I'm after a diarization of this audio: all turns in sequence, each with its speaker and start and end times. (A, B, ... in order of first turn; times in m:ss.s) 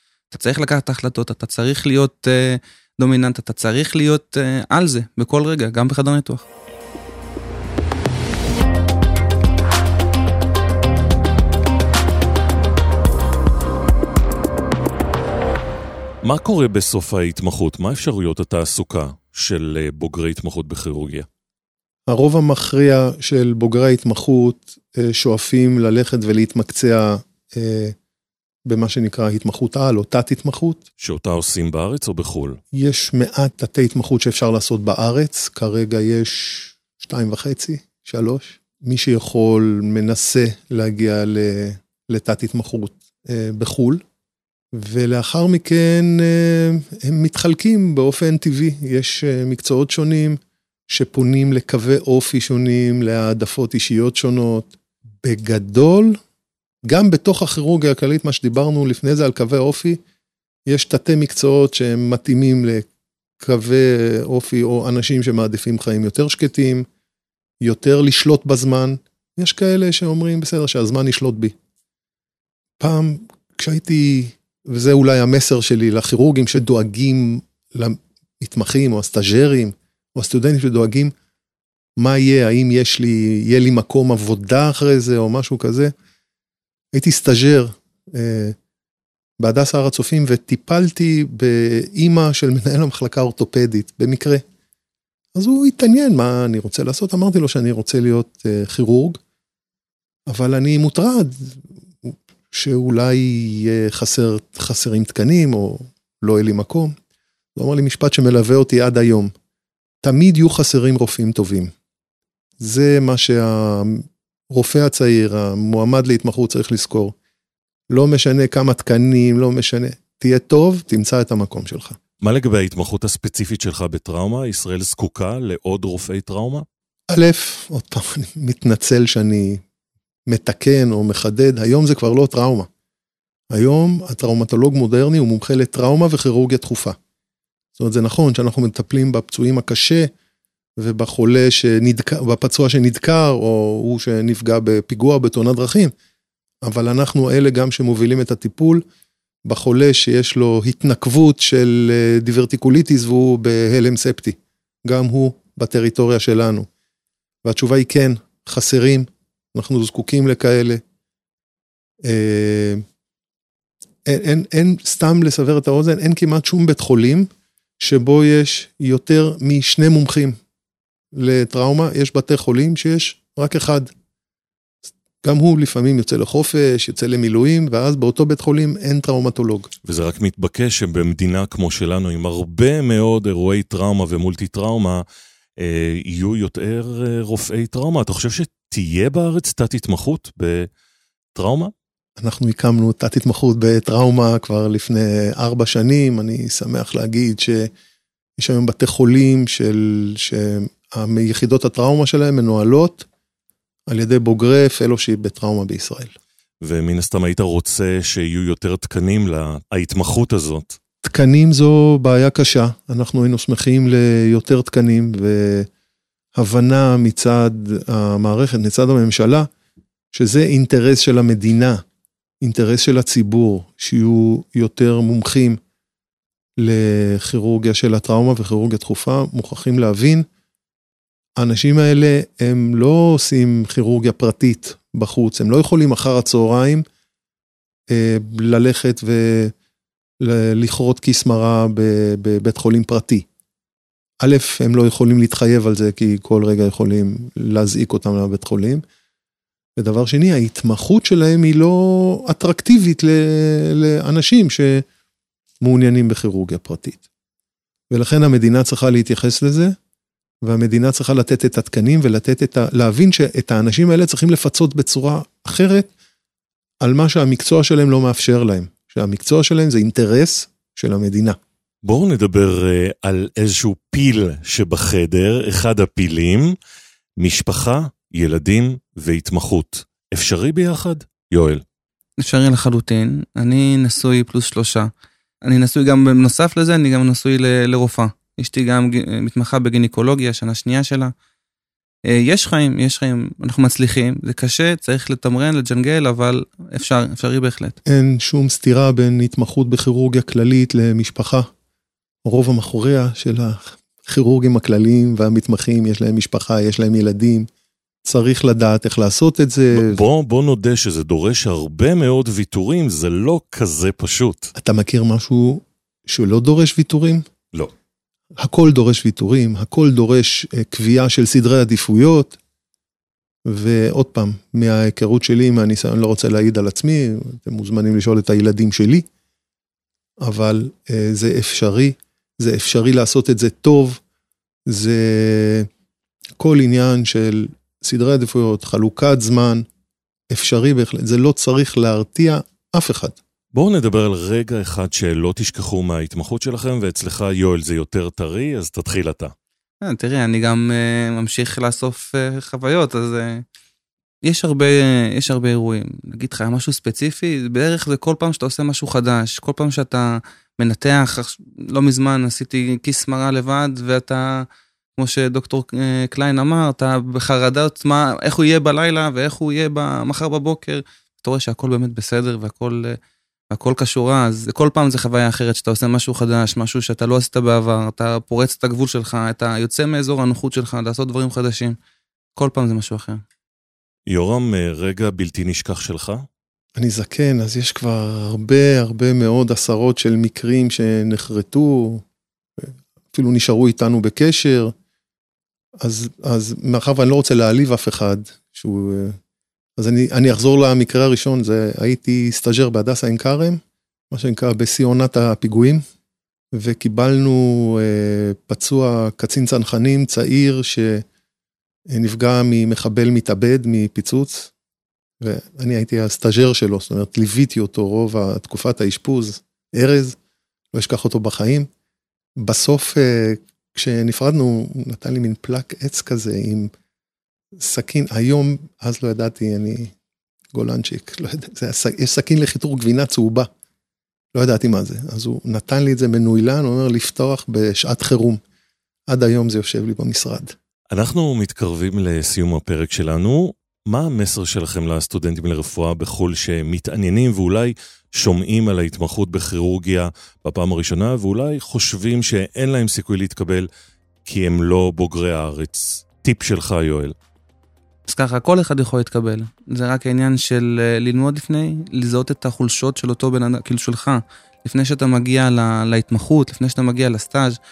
0:00.3-0:06.4 A
0:16.2-0:21.3 B
0:22.1-0:27.9 C
0:28.6-0:30.8 C
0:31.0-0:32.6 B
0:32.7-0:44.0 C
0:44.7-0:56.2 C
0:56.8-1:00.0 C
1:00.7-1:02.9 C
1:03.4-1:06.8 C
1:07.6-1:11.6 C
1:12.8-1:21.1 C
1:22.0-1:25.9 C
1:26.9-1:28.6 C
1:29.4-1:34.4 C
1:35.3-1:39.2 C
1:40.3-1:46.9 C
1:47.6-1:49.3 C
1:50.0-1:51.7 C
1:52.6-1:57.1 C
1:57.9-2:02.0 C
2:02.2-2:06.6 B
2:07.1-2:09.6 C
2:10.3-2:12.7 C
2:13.5-2:17.0 C
2:17.8-2:20.1 C
2:20.8-2:25.9 C
2:26.6-2:28.8 C
2:29.4-2:36.7 C
2:37.4-2:40.8 C
2:42.0-2:42.8 C
2:44.0-2:50.4 C
2:51.1-2:53.9 C
2:54.8-2:59.7 C
2:59.8-3:05.0 B
3:05.6-3:10.7 B
3:11.3-3:11.7 B
3:12.2-3:17.7 C
3:18.4-3:23.1 C
3:23.9-3:26.1 C
3:26.6-3:30.8 B
3:31.0-3:35.7 C
3:36.3-3:39.5 C
3:40.1-3:41.8 C
3:42.4-3:45.6 C
3:46.6-3:50.2 C
3:51.4-3:56.8 C
3:57.9-3:59.5 C
4:00.2-4:03.2 C
4:04.2-4:08.8 C
4:09.8-4:14.8 C
4:15.6-4:17.0 C
4:17.9-4:19.8 C
4:20.4-4:25.9 C
4:26.8-4:31.4 C
4:31.8-4:36.6 B
4:37.2-4:41.6 B
4:42.2-4:44.9 A
4:45.4-4:51.1 A
4:52.0-4:57.8 A
4:57.8-5:01.5 C
5:02.2-5:07.5 C
5:08.0-5:10.0 C
5:09.7-5:14.5 B
5:14.5-5:17.2 C
5:18.4-5:22.4 C
5:23.4-5:29.0 C
5:30.2-5:34.0 C
5:34.7-5:35.7 C
5:36.4-5:39.6 C
5:40.3-5:43.2 C
5:43.5-5:49.3 B
5:49.8-5:53.4 A
5:54.2-6:04.4 A
6:05.0-6:13.0 A
6:13.5-6:21.8 A
6:22.4-6:23.2 A
6:24.1-6:26.2 B
6:26.8-6:32.0 C
6:32.6-6:34.7 C
6:35.8-6:39.2 C
6:39.8-6:45.8 C
6:46.5-6:51.0 C
6:51.9-6:54.5 C
6:55.2-7:00.2 C
7:00.7-7:01.7 C
7:02.4-7:06.7 C
7:07.6-7:09.9 C
7:10.5-7:13.5 C
7:14.3-7:18.4 C
7:19.1-7:20.5 C
7:20.9-7:33.7 B
7:34.2-7:37.1 B
7:38.1-7:47.6 A